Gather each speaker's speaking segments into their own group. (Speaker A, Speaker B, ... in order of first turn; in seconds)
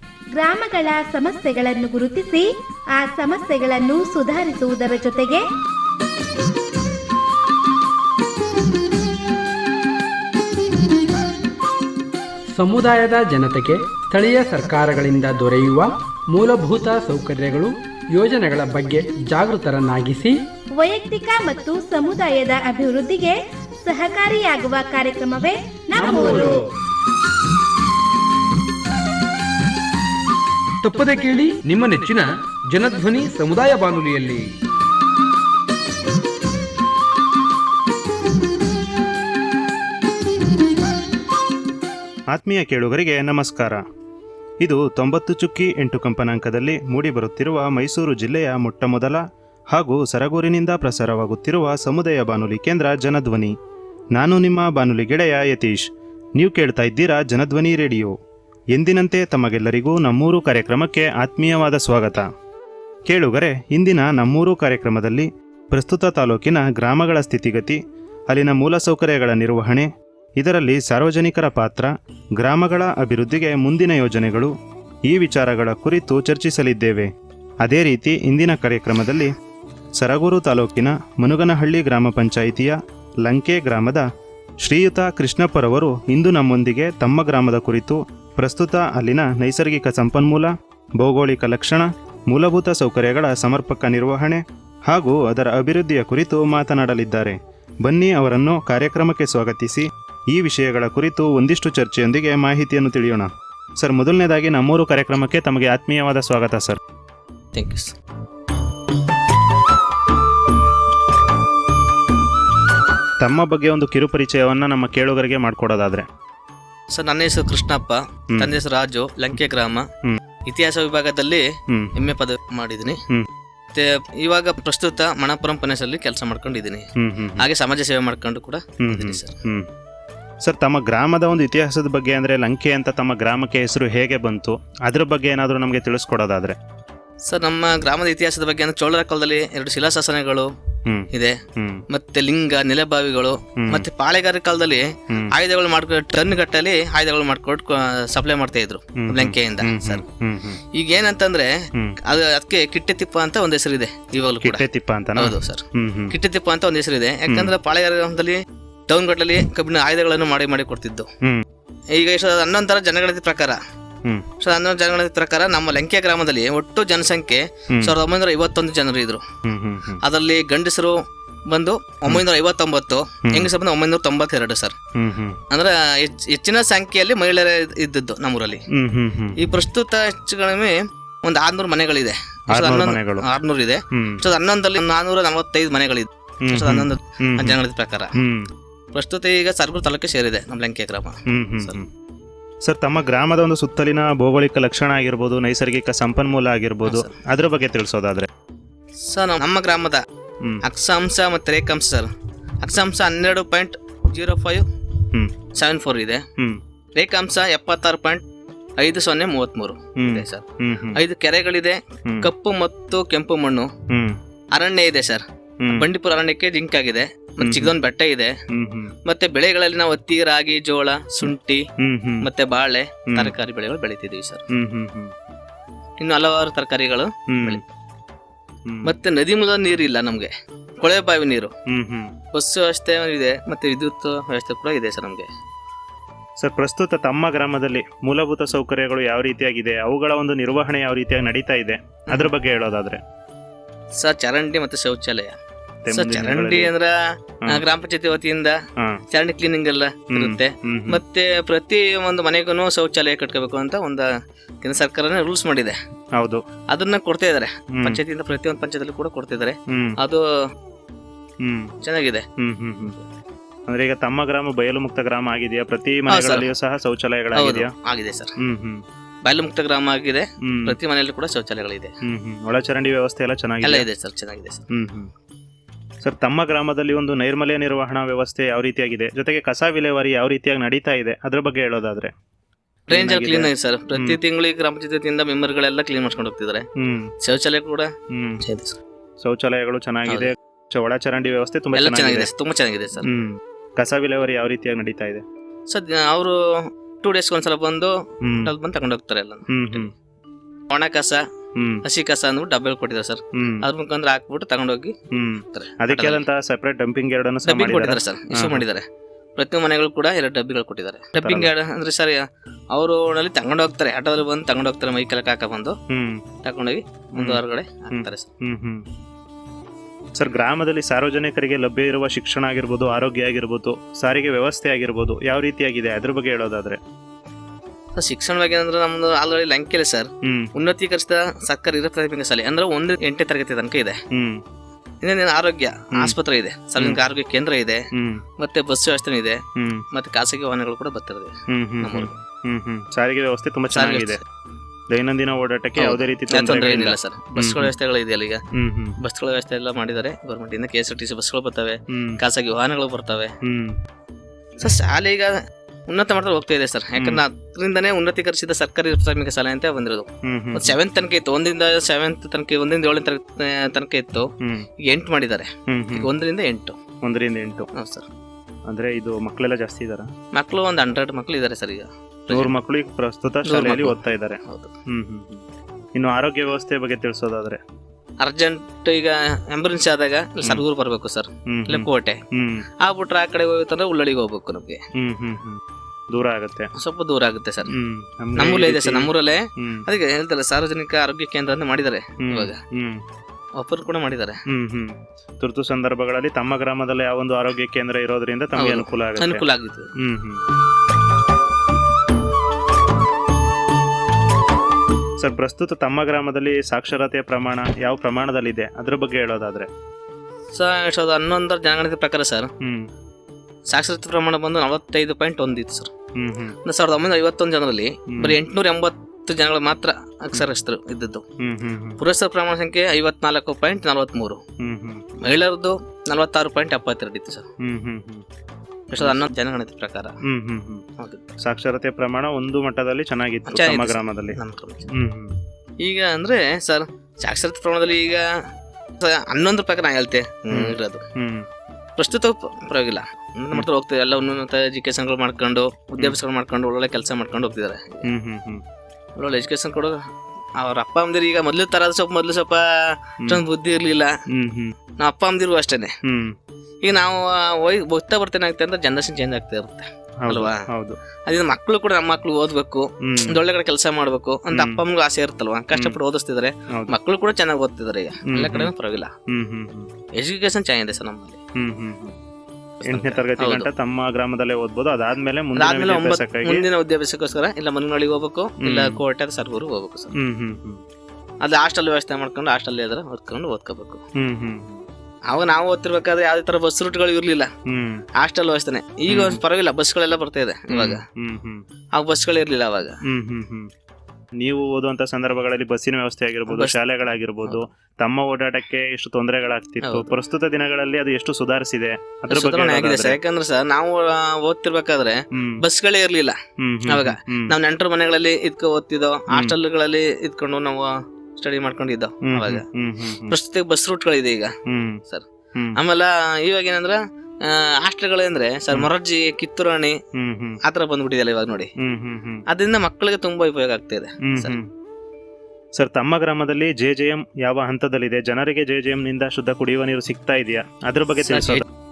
Speaker A: 0.3-5.4, 20.7-26.6
Speaker B: 12.6-20.4
Speaker C: 26.1-26.5, 30.8-34.4
Speaker D: 42.3-43.8, 44.6-49.2, 49.7-53.5, 54.1-55.9, 56.4-58.1, 58.7-62.3, 63.1-67.8, 68.3-74.5, 75.1-77.1, 77.6-79.3, 80.0-84.0, 84.6-106.8, 113.2-116.1, 121.7-121.9, 127.0-127.4, 128.8-129.7, 130.4-136.6, 140.8-141.8, 143.6-143.8, 149.0-150.6, 154.4-156.1, 157.3-157.5, 169.4-170.0, 174.9-175.4, 178.7-179.4, 182.5-183.3, 183.9-184.2, 186.4-187.6, 188.2-188.5, 191.3-191.9, 192.6-198.3, 210.0-211.0, 213.9-214.2, 215.6-215.8, 217.4-217.7, 218.5-218.9, 221.2-222.3, 223.1-223.3, 224.5-225.1, 227.3-227.6, 228.7-228.9, 231.7-232.1, 236.4-243.0, 245.8-246.7, 250.1-251.0, 256.1-256.4, 257.7-258.0, 259.7-260.0, 261.4-261.7, 262.4-263.0, 263.7-267.7, 268.4-268.8, 270.4-270.8, 272.0-273.9, 274.7-275.1, 276.0-282.1, 282.9-284.2, 286.8-287.1, 288.1-288.4, 289.2-292.3, 293.0-295.2, 298.2-298.5, 299.5-299.9, 301.6-301.8, 303.3-303.6, 305.1-308.6, 311.2-311.5, 315.9-316.2, 317.1-318.8, 320.2-326.8, 330.2-330.5, 334.1-334.4, 335.9-336.2, 336.8-337.0, 337.9-338.2, 339.6-339.8, 341.5-344.2, 344.9-347.7, 348.5-349.0, 351.9-352.2, 353.4-353.8, 356.9-357.2, 360.2-360.8, 364.4-364.7, 365.7-366.1, 367.0-367.7, 368.7-370.1, 372.3-375.4, 375.9-377.6, 381.5-382.6, 384.9-385.6, 386.1-386.7, 387.7-389.8, 392.2-393.0, 394.5-399.4, 400.0-400.4, 405.2-409.7, 412.6-412.9, 416.1-416.6, 418.1-418.4, 421.4-422.0, 424.6-425.0, 427.6-428.2, 429.0-429.2, 430.2-430.8, 431.4-434.4, 434.9-435.4, 440.5-441.5, 448.0-448.6, 454.3-454.8, 456.0-456.3, 460.2-461.0, 463.0-463.4, 464.5-464.8, 468.3-468.7, 469.3-469.9, 471.6-472.2, 472.9-476.6, 478.6-479.0, 480.1-480.8, 484.1-484.8, 487.7-488.0, 489.1-489.4, 490.7-491.6, 493.1-493.7, 494.4-503.2, 505.3-505.6, 506.6-507.5, 512.2-513.4, 514.7-515.0, 520.1-520.6, 521.8-522.4, 524.2-524.7, 525.8-531.7
Speaker E: 107.5-108.0, 116.9-119.9, 120.5-121.4, 122.0-123.0, 123.7-126.9, 127.4-129.3, 137.3-140.5, 141.1-141.4, 141.9-150.0, 150.7-151.5, 152.0-154.6, 155.2-161.1, 161.9-163.6, 164.4-169.2, 170.0-174.8, 175.5-178.6, 179.3-188.1, 188.9-191.8, 196.8-197.1, 199.0-200.0, 200.6-202.1, 202.6-204.6, 205.5-206.2, 207.0-208.2, 208.8-213.7, 214.5-218.3, 219.1-221.7, 222.2-224.4, 226.0-227.6, 228.8-231.5, 232.3-235.3, 244.0-245.4, 245.9-246.9, 247.5-248.6, 249.1-254.1, 254.6-255.8, 256.7-260.2, 261.8-262.2, 266.1-266.5, 267.3-268.3, 269.2-271.9, 273.6-274.6, 282.9-286.6, 287.2-288.8, 291.7-293.1, 295.7-299.9, 300.7-301.2, 301.8-304.9, 305.5-306.2, 307.5-315.8, 316.4-318.3, 327.9-334.0, 335.0-337.9, 338.4-342.1, 343.7-344.2, 345.8-348.4, 349.0-353.3, 354.6-355.4, 355.9-364.3, 364.8-366.8, 367.7-368.1, 370.3-372.5, 373.4-374.7, 378.2-382.2, 382.8-384.8, 386.8-387.7, 388.4-392.6, 393.6-394.4, 398.6-399.9, 410.5-412.5, 413.7-415.9, 416.6-421.2, 422.0-424.4, 425.2-427.4, 428.9-430.1, 433.4-434.9, 435.8-438.2, 439.0-441.0, 442.0-448.1, 449.2-450.0, 450.6-454.1, 455.0-455.9, 456.8-460.6, 461.2-469.1, 470.1-471.4, 472.8-473.7, 475.6-480.1, 481.4-484.0, 485.3-487.5, 488.2-491.0, 491.9-493.0, 496.5-496.8, 499.8-500.1, 502.3-512.6, 513.3-514.5, 515.1-520.0, 520.6-521.7, 522.5-524.5, 531.2-531.6